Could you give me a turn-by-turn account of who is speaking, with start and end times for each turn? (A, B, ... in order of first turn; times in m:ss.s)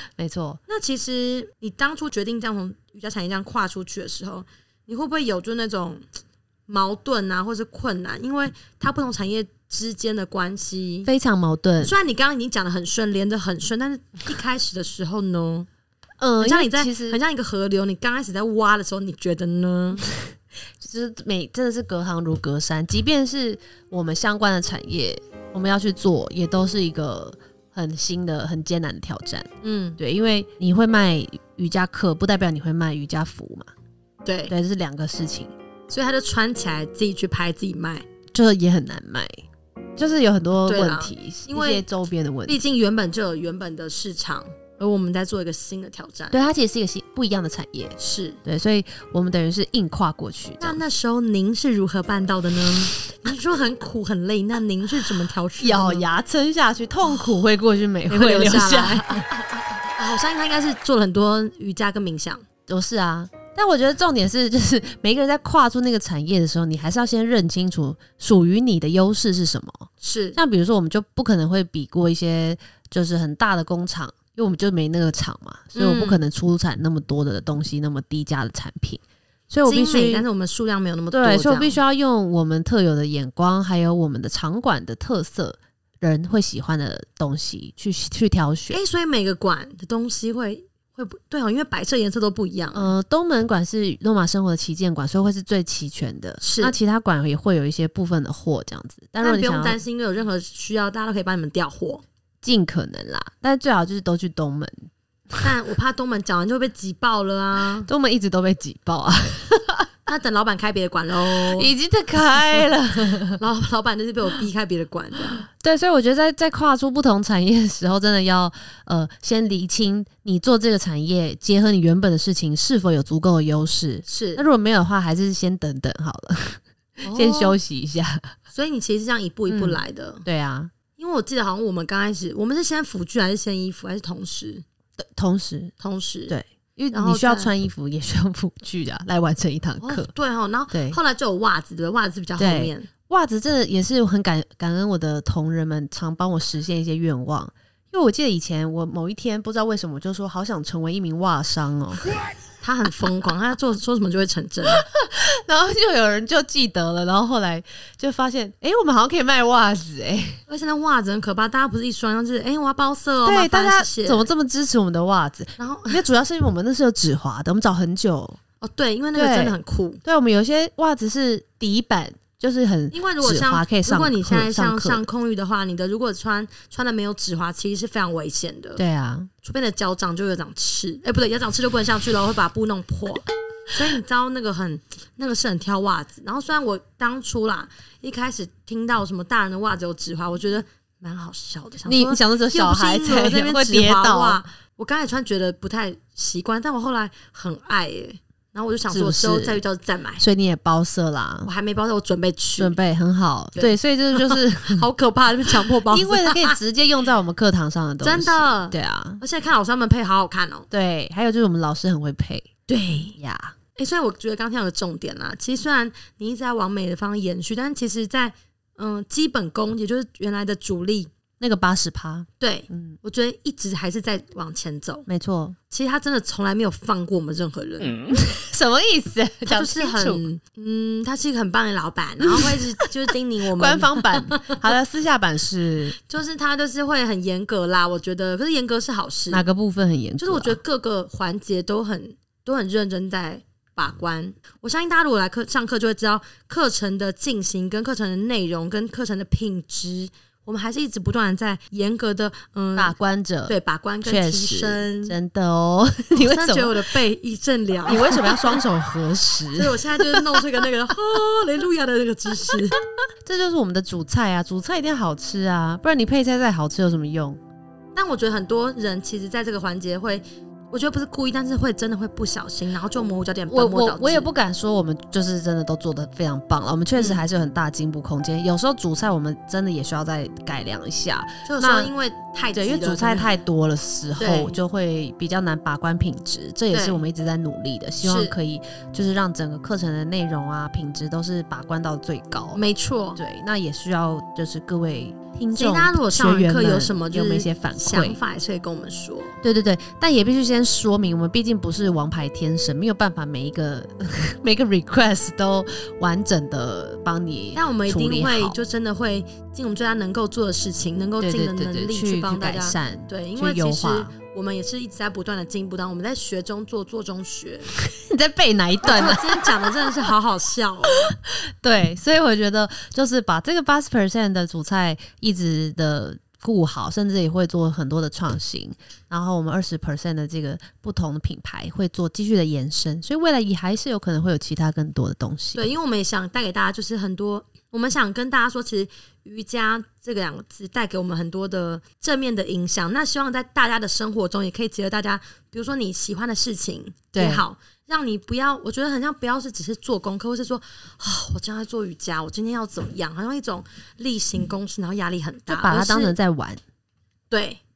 0:00.2-0:00.6 A
0:00.7-0:06.0 B
0:06.7-0:11.1 B
0:11.0-0:12.0 A
0:11.8-0:15.7 B
0:16.2-0:17.2 A
0:16.4-0:20.1 B
0:20.8-0:33.7 A
0:29.6-0:30.0 B
0:34.2-0:34.5 B
0:34.5-0:35.5 A
0:35.9-0:38.0 B
0:38.3-0:39.4 A
0:40.0-0:42.6 A
0:40.6-0:41.8 B
0:42.4-0:46.4 B
0:46.3-0:50.8 A
0:48.0-0:48.4 B
0:50.6-0:56.1 B
0:55.6-0:59.2 A
0:58.1-0:59.3 B
1:00.0-1:02.4 B
1:02.7-1:20.2 A
1:10.0-1:10.4 B
1:15.7-1:16.2 B
1:19.6-1:21.8 B
1:21.1-1:28.8 A
1:28.7-1:32.9 B
1:32.7-1:39.8 A
1:36.4-1:36.8 B
1:39.2-1:42.0 B
1:42.4-1:45.4 A
1:45.4-1:47.9 B
1:47.8-1:49.9 A
1:50.0-1:51.7 B
1:51.3-1:53.4 A
1:53.3-1:55.4 B
1:55.5-2:08.3 A
2:04.0-2:04.5 B
2:07.0-2:07.6 B
2:08.5-2:10.2 B
2:09.5-2:10.7 A
2:11.0-2:14.6 B
2:15.0-2:15.7 A
2:15.8-2:16.3 B
2:16.3-2:20.1 A
2:16.9-2:17.5 B
2:19.8-2:22.9 B
2:20.7-2:21.0 A
2:22.4-2:32.0 A
2:32.6-2:34.8 B
2:34.7-2:40.4 A
2:40.5-2:44.3 B
2:43.2-2:48.4 A
2:45.6-2:46.0 B
2:48.6-2:50.0 B
2:49.1-2:55.0 A
2:52.9-2:58.8 B
2:58.8-2:59.3 A
2:59.4-3:20.2 B
3:11.8-3:14.4 A
3:18.9-3:19.6 A
3:20.2-3:21.5 A
3:21.4-3:22.8 B
3:22.6-3:24.8 A
3:23.6-3:26.6 B
3:25.6-3:29.2 A
3:28.0-3:30.7 B
3:30.7-3:33.6 A
3:32.7-3:33.2 B
3:33.8-3:41.1 B
3:41.4-3:43.0 A
3:42.4-3:45.1 B
3:45.1-3:45.6 A
3:45.7-3:48.0 B
3:48.0-3:50.3 A
3:49.5-3:54.6 B
3:53.5-3:56.0 A
3:56.0-3:59.4 B
3:59.3-4:00.6 A
4:00.2-4:13.0 B
4:12.8-4:16.8 A
4:13.5-4:15.2 B
4:16.2-4:18.6 B
4:17.8-4:20.6 A
4:19.5-4:22.8 B
4:23.2-4:27.4 A
4:27.9-4:34.3 B
4:33.5-4:41.9 A
4:37.0-4:37.2 B
4:41.4-4:43.3 B
4:42.5-4:52.6 A
4:44.2-4:44.6 B
4:46.7-4:47.0 B
4:48.0-4:48.4 B
4:52.5-4:53.2 B
4:53.2-4:58.2 A
4:55.5-4:59.4 B
4:59.4-5:08.6 A
5:07.5-5:17.7 B
5:11.2-5:14.1 A
5:17.7-5:19.9 A
5:18.8-5:21.0 B
5:21.1-5:35.7 A
5:35.5-5:56.2 B
5:47.1-5:47.4 A
5:55.5-5:56.6 A
5:57.3-5:57.6 B